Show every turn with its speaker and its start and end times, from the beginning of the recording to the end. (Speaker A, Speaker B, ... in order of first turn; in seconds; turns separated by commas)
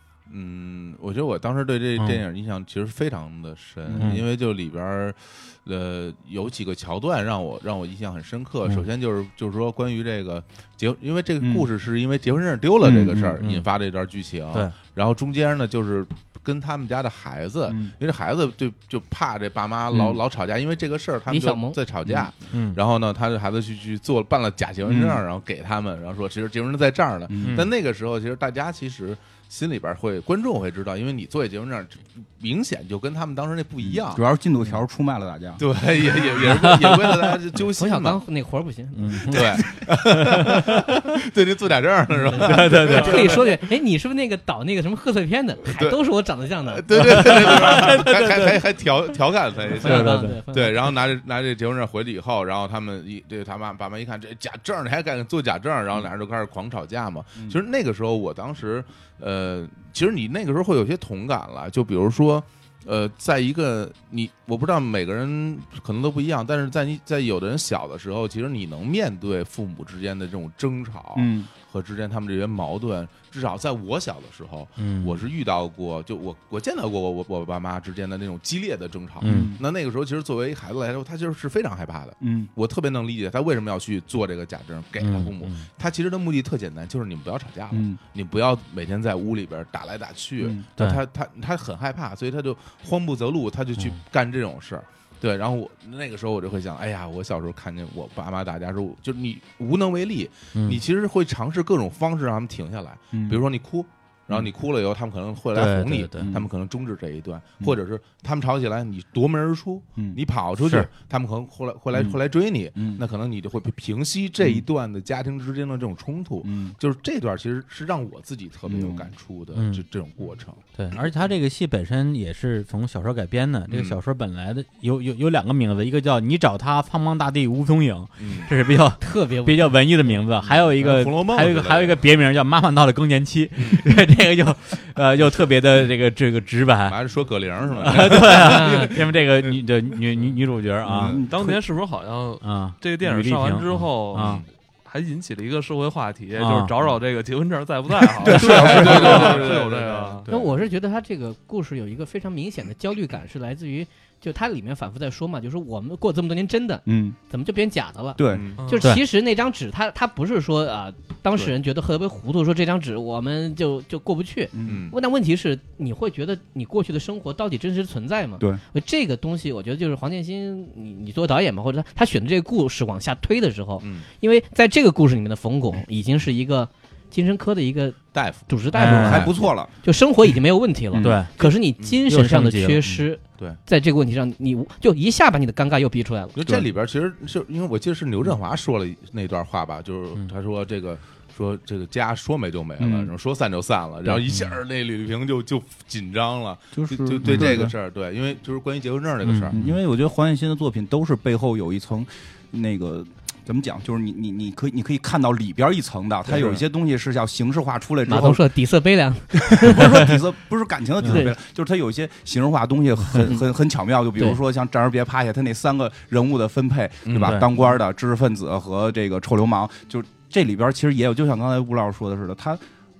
Speaker A: 0.3-34.2, Speaker B: 2.0-2.2, Speaker C: 3.9-4.2, Speaker B: 4.0-4.2, Speaker C: 11.4-11.7, Speaker C: 12.8-13.4, Speaker B: 13.4-13.7, Speaker C: 17.7-17.9, Speaker C: 19.9-20.2, Speaker D: 21.3-21.8, Speaker B: 22.5-22.8, Speaker C: 24.8-25.2, Speaker C: 27.3-27.6, Speaker B: 27.4-27.7, Speaker C: 33.8-35.6, Speaker A: 35.6-38.2, Speaker B: 36.4-37.3, Speaker D: 37.8-39.3, Speaker B: 38.9-41.0, Speaker A: 39.2-43.4, Speaker B: 42.3-43.4, Speaker D: 42.6-46.8, Speaker A: 45.7-46.0, Speaker A: 46.6-120.6, Speaker B: 46.9-48.6, Speaker B: 49.8-50.4, Speaker D: 49.8-50.9, Speaker C: 71.1-71.5, Speaker B: 74.8-75.2, Speaker B: 79.2-79.6, Speaker C: 79.2-79.6, Speaker C: 82.2-82.5, Speaker B: 85.0-85.7, Speaker C: 87.7-88.0, Speaker C: 90.4-90.6, Speaker B: 100.5-100.8, Speaker C: 103.1-103.4, Speaker B: 105.5-106.3, Speaker C: 106.2-106.5, Speaker B: 110.6-110.9, Speaker C: 112.7-113.0, Speaker C: 114.4-114.6, Speaker C: 116.4-116.8, Speaker C: 118.7-119.1, Speaker B: 119.5-119.8, Speaker B: 120.7-137.0, Speaker A: 123.7-124.0, Speaker A: 128.2-128.5, Speaker D: 129.0-129.8, Speaker A: 130.4-132.1, Speaker A: 133.6-133.8, Speaker A: 136.9-139.6, Speaker B: 137.8-141.2, Speaker D: 138.3-139.0, Speaker C: 140.8-141.6, Speaker A: 140.9-141.2, Speaker E: 141.3-150.3, Speaker B: 142.4-144.4, Speaker A: 144.1-144.4, Speaker B: 146.4-146.7, Speaker C: 148.2-149.6, Speaker A: 148.2-150.4, Speaker D: 150.3-186.3, Speaker C: 156.8-157.2, Speaker C: 158.2-158.5, Speaker A: 158.3-158.6, Speaker E: 158.6-158.8, Speaker C: 164.5-164.9, Speaker A: 164.6-164.9, Speaker A: 173.8-174.1, Speaker A: 178.1-178.5, Speaker B: 178.7-179.3, Speaker C: 178.8-179.7, Speaker A: 179.0-179.3, Speaker B: 181.0-181.3, Speaker A: 181.4-182.0, Speaker B: 182.1-183.0, Speaker A: 186.3-199.6, Speaker C: 192.8-193.1, Speaker B: 194.2-194.6, Speaker C: 196.8-197.7, Speaker B: 197.2-197.6, Speaker B: 199.2-199.7, Speaker C: 199.5-208.4, Speaker A: 206.3-206.6, Speaker D: 208.1-210.1, Speaker C: 209.6-222.6, Speaker D: 211.0-211.3, Speaker A: 217.1-217.4, Speaker B: 217.2-217.5